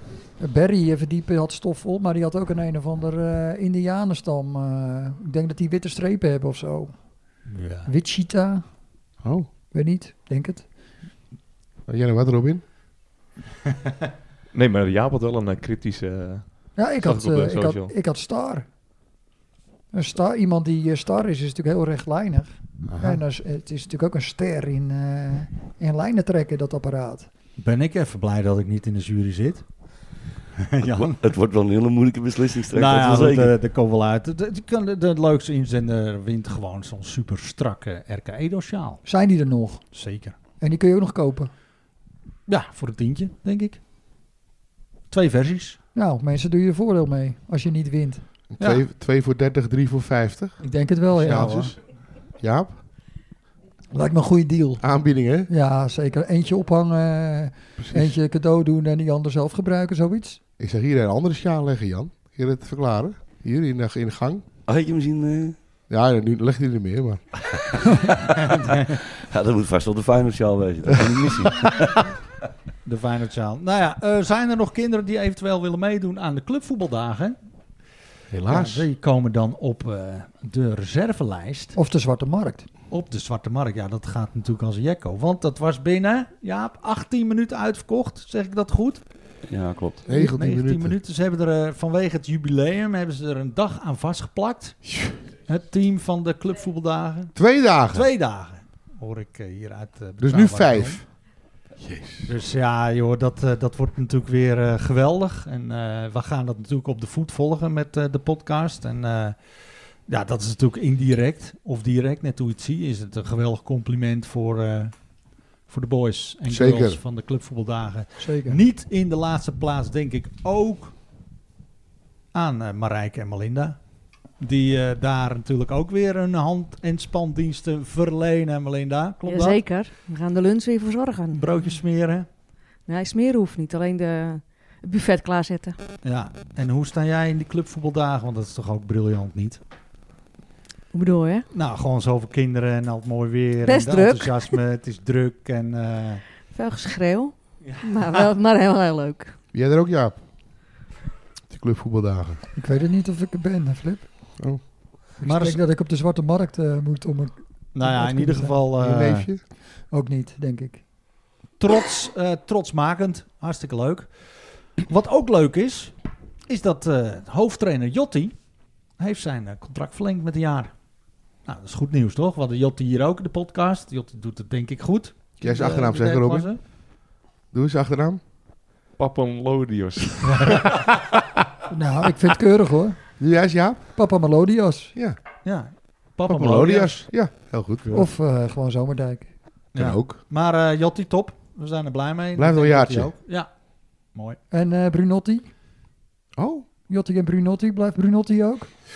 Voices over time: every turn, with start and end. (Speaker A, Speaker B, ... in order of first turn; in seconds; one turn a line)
Speaker A: 0.4-6.9
Speaker B: 7.5-7.9
Speaker A: 7.9-8.6
Speaker A: 9.7-10.6
Speaker C: 11.9-12.6
Speaker D: 14.5-17.9
Speaker A: 16.8-18.7
Speaker A: 19.9-27.3
Speaker C: 22.9-23.2
Speaker B: 27.6-29.6
Speaker B: 30.6-31.2
Speaker E: 30.9-33.5
Speaker B: 32.7-39.0
Speaker A: 39.0-39.8
Speaker B: 39.9-40.4
Speaker A: 40.6-41.5
Speaker B: 42.5-43.8
Speaker B: 45.1-45.8
Speaker A: 46.0-48.2
Speaker C: 48.5-50.6
Speaker A: 50.6-51.7
Speaker C: 51.1-51.8
Speaker B: 51.3-51.6
Speaker C: 52.4-52.8
Speaker A: 53.9-54.9
Speaker C: 54.8-55.5
Speaker A: 55.5-60.4
Speaker C: 57.8-58.1
Speaker C: 60.6-64.4
Speaker E: 64.7-65.6
Speaker C: 65.9-67.3
Speaker B: 68.4-69.0
Speaker E: 69.2-72.1
Speaker B: 72.9-77.4
Speaker C: 78.3-78.9
Speaker B: 78.5-81.8
Speaker A: 81.8-82.7
Speaker B: 82.9-89.0
Speaker E: 89.5-90.0
Speaker C: 90.1-91.0
Speaker B: 90.1-94.9
Speaker B: 95.5-101.0
Speaker C: 97.4-98.1
Speaker C: 100.2-101.1
Speaker C: 101.8-102.3
Speaker B: 102.3-109.4
Speaker B: 110.1-114.9
Speaker B: 115.7-120.9
Speaker C: 116.5-117.0
Speaker A: 118.2-118.6
Speaker B: 122.3-123.8
Speaker B: 124.4-129.6
Speaker F: 129.3-131.5
Speaker B: 131.3-132.3
Speaker F: 132.9-135.8
Speaker B: 136.0-139.6
Speaker F: 140.9-141.4
Speaker B: 141.5-146.2
Speaker F: 143.6-144.6
Speaker F: 146.5-149.3
Speaker B: 147.6-148.3
Speaker C: 149.5-150.2
Speaker C: 151.5-152.4
Speaker A: 152.6-154.1
Speaker A: 155.2-158.6
Speaker B: 155.2-155.6
Speaker B: 157.8-159.3
Speaker C: 158.8-159.4
Speaker A: 159.9-160.8
Speaker B: 161.6-165.9
Speaker B: 166.5-168.3
Speaker B: 169.0-170.7
Speaker B: 171.4-176.6
Speaker C: 175.4-176.5
Speaker C: 177.5-178.2
Speaker D: 179.0-180.7
Speaker B: 180.2-180.7
Speaker A: 181.7-183.0
Speaker C: 183.2-183.9
Speaker A: 183.9-184.9
Speaker B: 185.4-187.1
Speaker C: 186.3-187.9
Speaker A: 187.9-189.3
Speaker B: 189.7-193.5
Speaker C: 189.8-190.2
Speaker C: 192.4-193.1
Speaker B: 194.1-194.4
Speaker A: 194.5-195.5
Speaker C: 196.4-196.7
Speaker A: 196.9-198.7